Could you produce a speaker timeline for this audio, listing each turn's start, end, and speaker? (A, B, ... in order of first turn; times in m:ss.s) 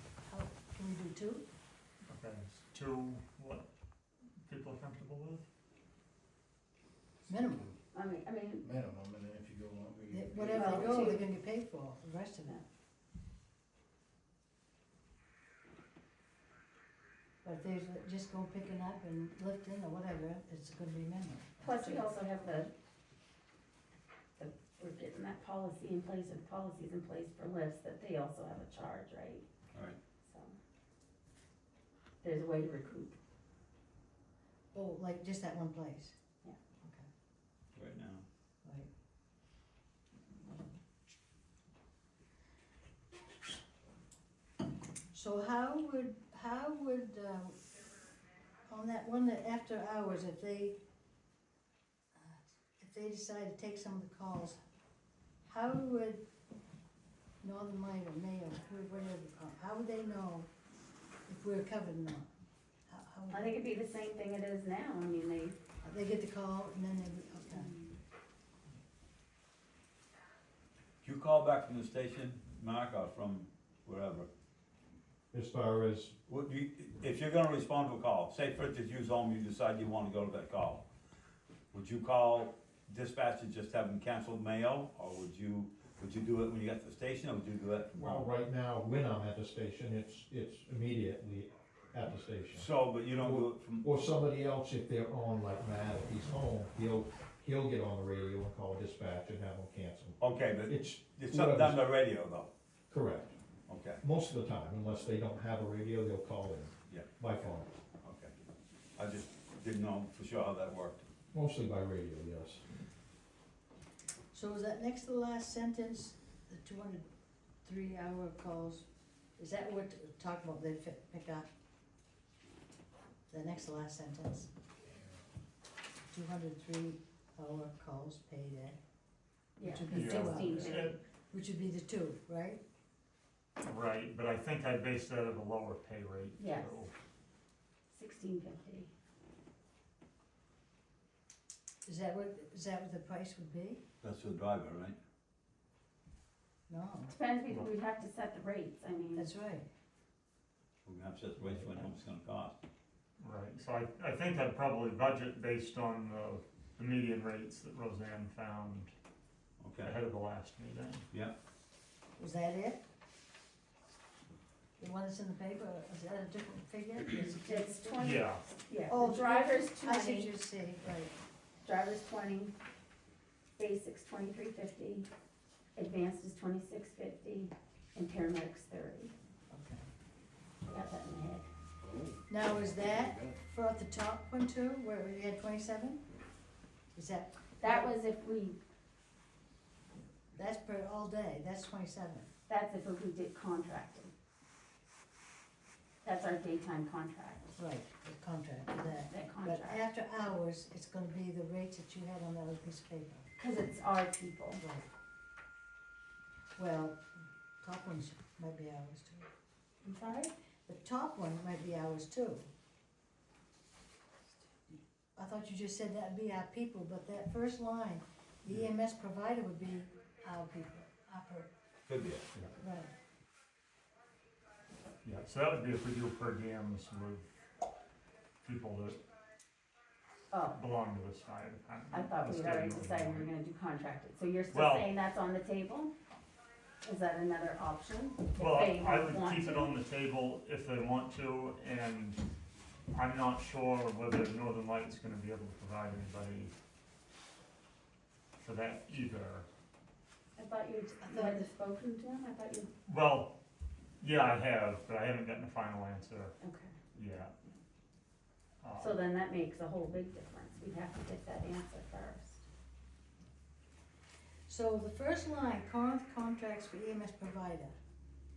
0:00.3-0:01.4 A
0:02.1-0:03.7 B
0:04.4-0:05.5 B
0:07.3-0:07.7 A
0:07.9-0:08.7 C
0:08.6-0:11.0 D
0:10.1-0:12.6 A
0:10.5-0:11.2 C
0:17.4-0:22.1 A
0:21.6-0:22.7 C
0:24.4-0:29.4 C
0:29.7-0:30.0 E
0:30.2-0:30.5 C
0:32.2-0:33.2 C
0:34.7-0:36.2 A
0:36.8-0:37.1 A
0:37.7-0:38.2 E
0:45.1-0:47.6 A
0:48.7-0:50.8 A
0:52.2-0:54.6 A
0:55.4-0:56.2 A
0:57.4-1:00.5 A
1:01.3-1:02.3 A
1:02.9-1:03.6 A
1:03.3-1:05.6 C
1:05.8-1:07.8 A
1:07.5-1:07.9 C
1:11.0-1:14.3 E
1:15.3-1:16.2 F
1:16.3-1:20.8 E
1:21.7-1:28.3 E
1:27.9-1:41.8 F
1:32.5-1:33.9 E
1:40.2-1:42.5 E
1:42.9-1:43.3 F
1:43.7-1:44.0 E
1:44.0-1:47.7 F
1:48.0-1:48.3 E
1:49.0-1:51.0 E
1:51.3-1:52.6 F
1:54.3-1:57.1 A
1:57.6-1:58.9 A
1:59.4-2:01.5 A
2:03.3-2:04.5 A
2:06.1-2:08.8 A
2:09.6-2:11.0 C
2:09.6-2:12.6 A
2:09.9-2:10.9 B
2:13.6-2:16.9 B
2:16.4-2:16.8 C
2:17.9-2:18.9 C
2:21.9-2:23.8 A
2:24.0-2:25.0 E
2:26.7-2:27.1 A
2:27.1-2:29.3 C
2:29.1-2:29.7 A
2:30.8-2:32.6 E
2:33.2-2:38.9 B
2:39.6-2:39.9 E
2:39.8-2:41.1 B
2:42.2-2:42.8 A
2:44.8-2:48.1 A
2:47.4-2:50.3 C
2:48.0-2:48.5 B
2:48.9-2:51.1 A
2:51.6-2:52.6 C
2:53.6-2:55.1 C
2:55.8-2:59.1 C
2:59.5-2:59.9 A
3:00.6-3:01.5 C
3:01.8-3:03.3 D
3:02.3-3:06.0 A
3:07.0-3:07.9 A
3:07.6-3:08.6 C
3:10.4-3:12.3 A
3:12.5-3:14.1 C
3:16.0-3:17.5 C
3:17.6-3:23.3 A
3:19.0-3:19.9 C
3:23.4-3:24.6 C
3:24.6-3:24.9 A
3:26.6-3:27.0 A
3:27.6-3:29.3 A
3:29.8-3:30.3 C
3:30.7-3:32.5 A
3:35.2-3:41.5 A
3:41.9-3:42.2 E
3:42.6-3:42.9 A
3:45.0-3:47.3 B
3:48.4-3:49.0 B
3:50.3-3:50.6 C
3:50.5-3:53.3 B
3:51.9-3:55.9 C
3:54.5-3:54.9 B
3:56.8-3:59.8 C
3:58.4-4:02.2 B
4:02.9-4:06.5 B
4:08.4-4:09.5 B
4:10.4-4:12.7 C
4:11.0-4:11.5 A
4:12.9-4:13.3 B
4:14.0-4:16.4 B
4:16.4-4:16.8 C
4:16.9-4:17.3 B
4:18.6-4:19.0 B
4:18.8-4:22.4 C
4:24.5-4:27.7 A